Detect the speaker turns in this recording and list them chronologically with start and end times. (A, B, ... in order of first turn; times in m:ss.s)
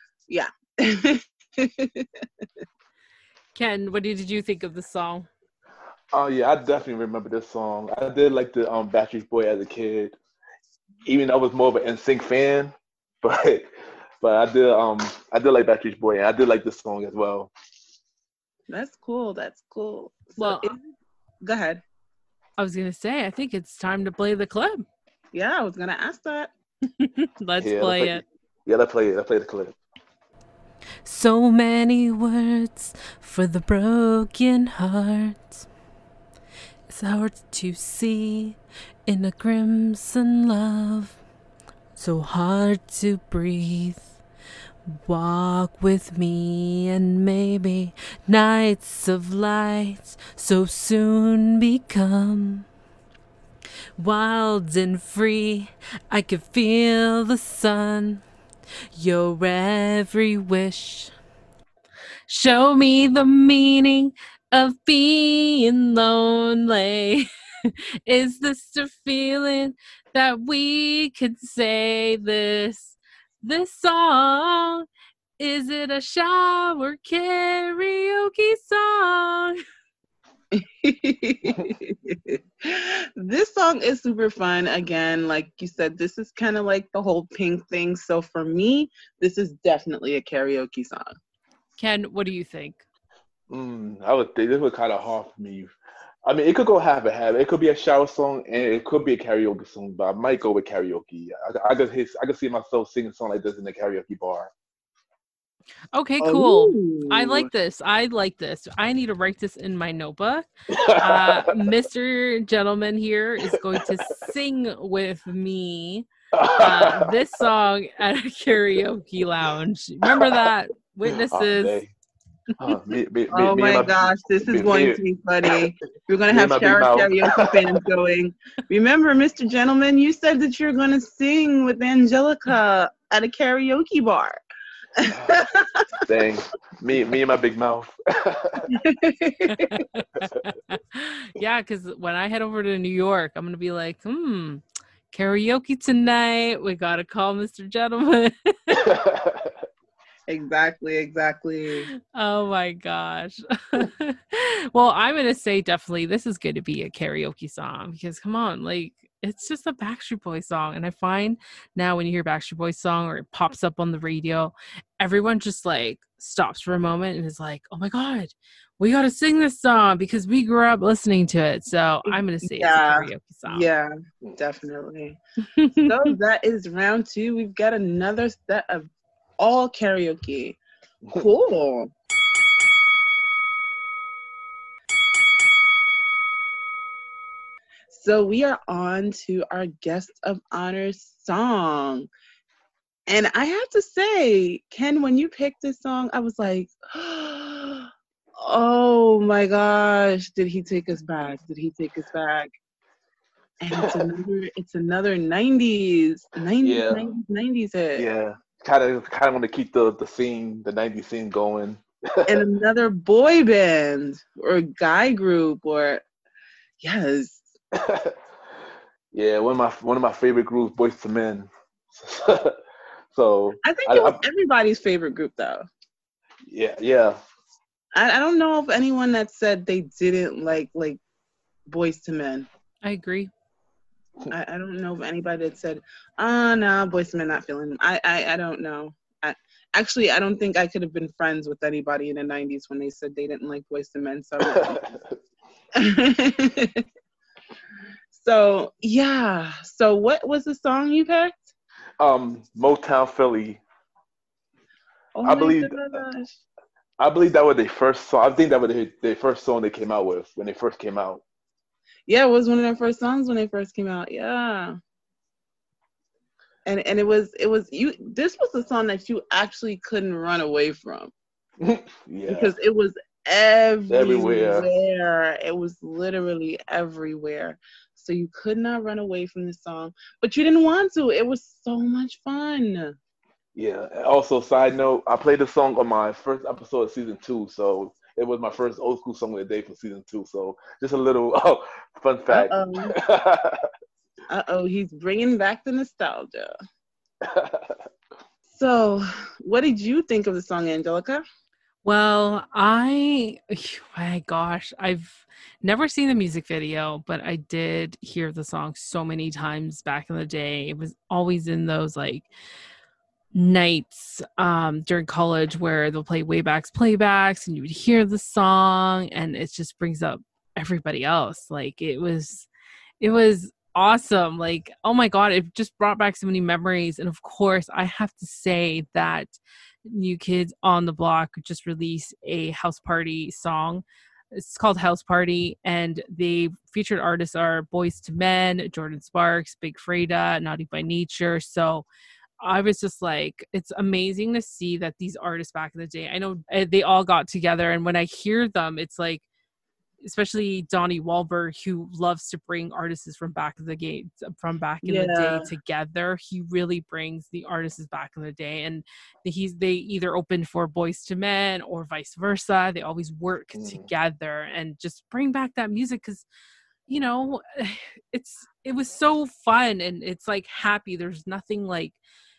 0:00.3-0:02.2 A
0:03.6-0:05.3 B
0:06.1-0:10.2 C
0:11.1-0:17.5 C
0:18.7-0:21.8 A
0:20.4-0:20.7 B
0:22.6-0:24.9 B
0:25.3-0:26.5 A
0:27.0-0:28.2 B
0:27.6-0:29.8 C
0:31.0-0:35.6 B
0:36.9-0:41.2 B
0:42.0-0:44.2 B
0:44.9-0:52.7 B
0:54.0-0:58.2 B
0:58.9-1:01.1 B
1:02.3-1:14.9 B
1:15.4-1:19.6 B
1:20.5-1:31.1 A
1:31.8-1:32.8 B
1:33.5-1:35.7 C
1:36.3-1:44.5 C
1:45.9-1:56.1 B
1:46.2-1:47.4 A
1:50.7-1:51.4 C
1:56.3-1:57.1 C
1:56.6-2:01.8 B
2:01.3-2:01.9 C
2:02.6-2:05.0 C
2:03.3-2:14.4 A
2:06.3-2:07.8 C
2:15.0-2:15.9 A
2:15.0-2:15.4 C
2:16.0-2:18.7 C
2:18.7-2:19.8 A
2:19.5-2:28.9 B
2:28.8-2:29.5 C
2:30.3-2:31.9 A
2:32.1-2:53.7 B
2:52.1-2:55.2 A
2:55.6-2:56.0 B
2:55.8-3:00.6 A
3:01.1-3:01.9 A
3:07.9-3:12.1 A
3:13.1-3:22.5 A
3:23.6-3:28.1 A
3:23.8-3:24.1 C
3:26.6-3:27.1 C
3:28.0-3:32.4 C
3:32.3-3:36.0 A
3:36.8-3:37.5 A
3:37.8-3:38.2 C
3:39.1-3:42.6 C
3:43.1-3:44.2 C
3:43.6-3:45.6 A
3:46.5-3:47.2 C
3:48.0-3:51.0 A
3:51.7-3:52.5 A
3:52.8-3:53.3 B
3:54.3-4:04.8 A
4:04.4-4:05.1 C
4:05.8-4:06.8 A
4:08.1-4:11.5 A
4:12.0-4:13.6 C
4:15.2-4:16.4 A
4:15.2-4:16.0 C
4:17.0-4:21.2 C
4:22.1-4:24.8 A
4:26.7-4:31.1 A
4:31.6-4:32.5 C
4:32.3-4:43.0 A
4:33.9-4:34.7 C
4:43.6-4:53.7 C
4:52.3-4:52.9 A
4:54.3-4:56.5 A
4:57.2-4:57.8 C
4:58.5-5:01.2 A
5:01.8-5:12.3 B
5:13.3-5:22.5 B
5:23.0-5:41.9 B
5:42.4-5:49.2 B
5:50.0-6:06.3 B
5:54.8-5:55.5 A
6:03.5-6:03.9 C
6:06.9-6:12.0 B